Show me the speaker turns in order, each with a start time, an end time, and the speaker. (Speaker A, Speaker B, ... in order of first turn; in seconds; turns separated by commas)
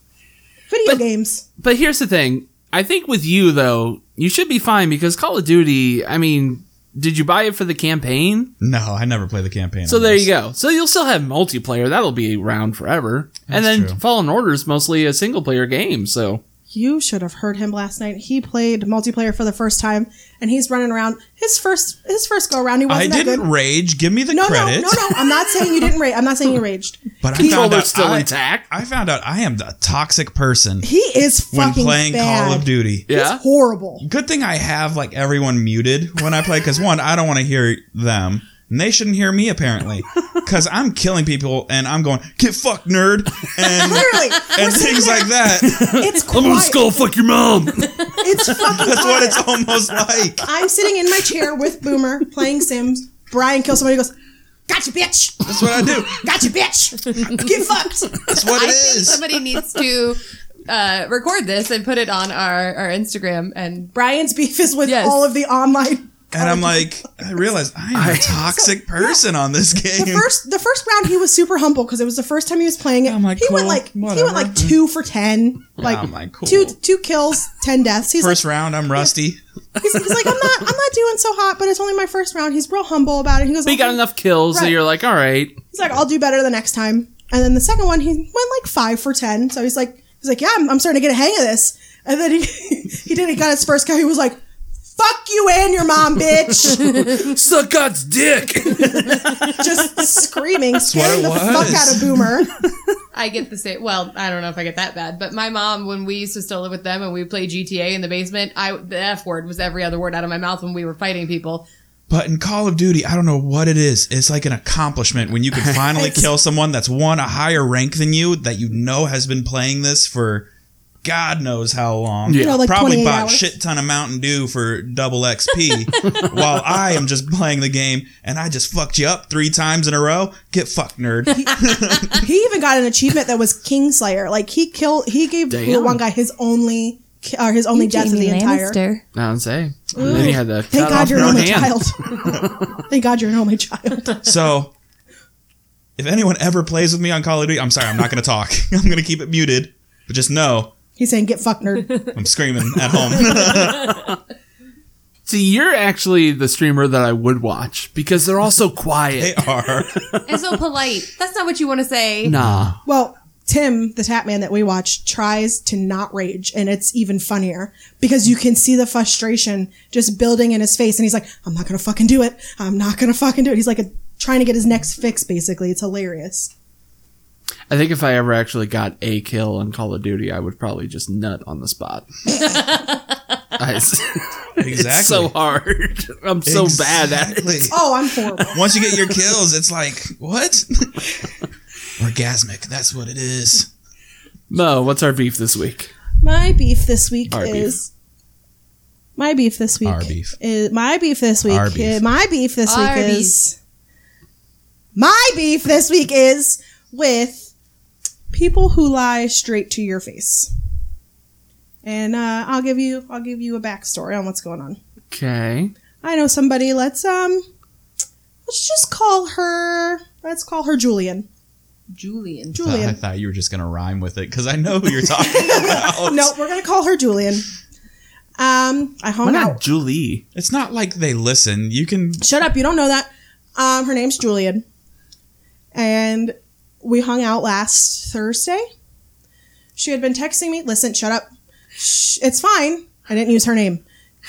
Speaker A: 0.7-1.4, Speaker B: 1.6-8.5, Speaker C: 8.6-10.3, Speaker B: 9.9-16.4, Speaker C: 13.5-14.0, Speaker A: 16.7-23.5, Speaker C: 22.9-25.2, Speaker A: 24.3-27.7, Speaker C: 27.2-30.9, Speaker B: 27.3-28.7, Speaker A: 30.8-34.0, Speaker C: 31.5-33.0, Speaker B: 33.1-33.4, Speaker C: 34.0-45.9, Speaker A: 43.7-47.0, Speaker B: 45.6-48.2, Speaker A: 48.1-49.6, Speaker C: 48.6-50.5, Speaker A: 50.4-54.1, Speaker A: 54.7-58.2, Speaker C: 55.5-56.2, Speaker C: 58.2-59.2, Speaker D: 58.4-63.9, Speaker A: 63.9-66.9, Speaker D: 64.8-65.2, Speaker C: 66.3-70.3, Speaker B: 67.9-68.6, Speaker A: 68.3-68.6, Speaker A: 69.9-78.4, Speaker C: 73.0-74.8, Speaker C: 75.8-76.8, Speaker C: 78.2-79.4, Speaker A: 79.8-84.8, Speaker B: 83.6-85.6, Speaker A: 85.7-94.4, Speaker A: 95.0-97.1, Speaker B: 96.5-99.9, Speaker A: 99.0-102.5, Speaker C: 100.8-102.2, Speaker B: 101.5-101.8, Speaker D: 103.1-111.6, Speaker C: 112.1-120.5, Speaker B: 115.5-116.2, Speaker C: 121.0-132.2, Speaker B: 122.3-122.6, Speaker A: 122.3-123.5, Speaker A: 131.3-138.8, Speaker B: 135.5-136.0, Speaker D: 137.7-139.0, Speaker B: 139.1-142.8, Speaker A: 139.9-144.2, Speaker C: 140.0-141.8, Speaker C: 144.2-144.7, Speaker C: 146.0-150.7, Speaker A: 151.0-152.0, Speaker C: 152.1-154.2, Speaker B: 155.2-160.2, Speaker C: 159.1-160.0, Speaker D: 160.3-162.3, Speaker B: 162.2-162.8, Speaker C: 162.3-162.8, Speaker A: 162.8-176.5, Speaker B: 177.7-182.1, Speaker D: 182.4-183.0, Speaker B: 183.6-187.7, Speaker C: 184.6-185.3, Speaker C: 186.4-187.8, Speaker A: 187.7-188.7, Speaker C: 188.5-191.2, Speaker C: 192.0-193.7, Speaker B: 194.5-195.9, Speaker A: 196.2-197.9, Speaker B: 197.3-197.8, Speaker A: 199.2-203.6, Speaker C: 199.8-200.3, Speaker C: 201.4-202.0, Speaker D: 202.7-203.4, Speaker A: 204.9-207.5, Speaker A: 208.3-210.5, Speaker A: 211.8-214.8, Speaker B: 215.1-215.7, Speaker A: 216.0-217.4, Speaker A: 218.4-221.3, Speaker D: 221.9-222.6, Speaker A: 222.5-223.0, Speaker C: 222.6-226.3, Speaker A: 225.1-227.4, Speaker A: 228.4-229.6, Speaker B: 229.2-230.2, Speaker C: 230.3-232.2, Speaker A: 232.2-234.6, Speaker A: 235.7-238.6, Speaker A: 239.8-243.8